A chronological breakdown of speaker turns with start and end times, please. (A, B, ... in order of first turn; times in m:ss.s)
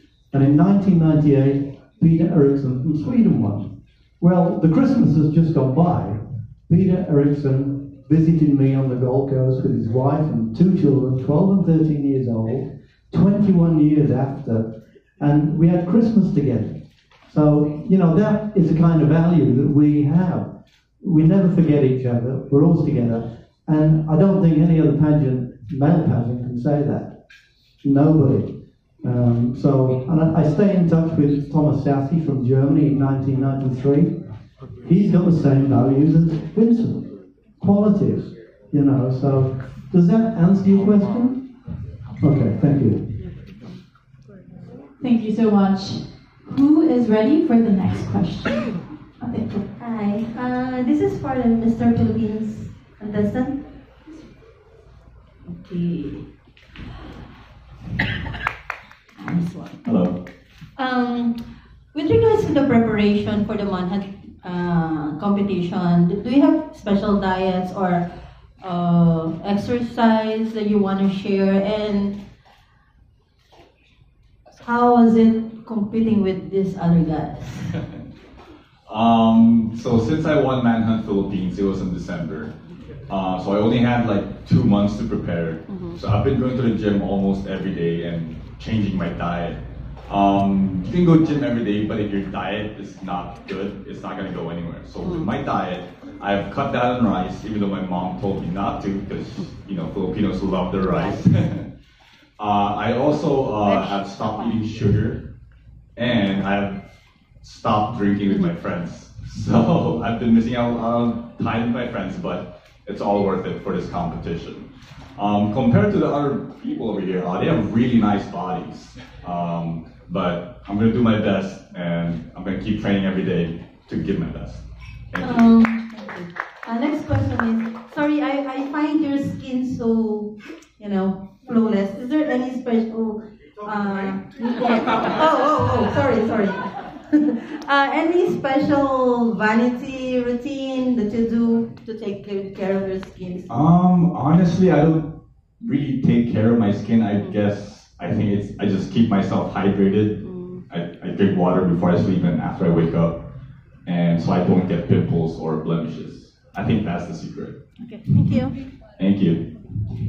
0:00.3-0:27.2 A
0:27.8-0:34.3 A
0:34.8-0:41.5 A
0:42.2-0:43.1 A
0:45.0-0:49.6 B
0:49.8-0:53.6 C
0:55.5-0:56.3 C
0:59.2-0:59.9 C
0:59.8-1:00.2 D
1:00.8-1:01.4 C
1:01.9-1:08.1 C
1:08.6-1:12.2 C
1:14.6-1:17.7 C
1:18.9-1:22.5 D
1:23.1-1:41.7 D
1:25.7-1:26.0 C
1:35.0-1:35.3 C
1:40.9-1:41.2 C
1:42.4-1:45.2 D
1:43.6-1:44.6 C
1:46.0-1:46.8 D
1:47.4-2:05.6 D
2:05.2-2:23.5 C
2:23.5-2:33.2 D
2:30.2-2:30.6 C
2:33.8-2:37.6 D
2:38.0-2:38.6 C
2:39.0-2:39.5 D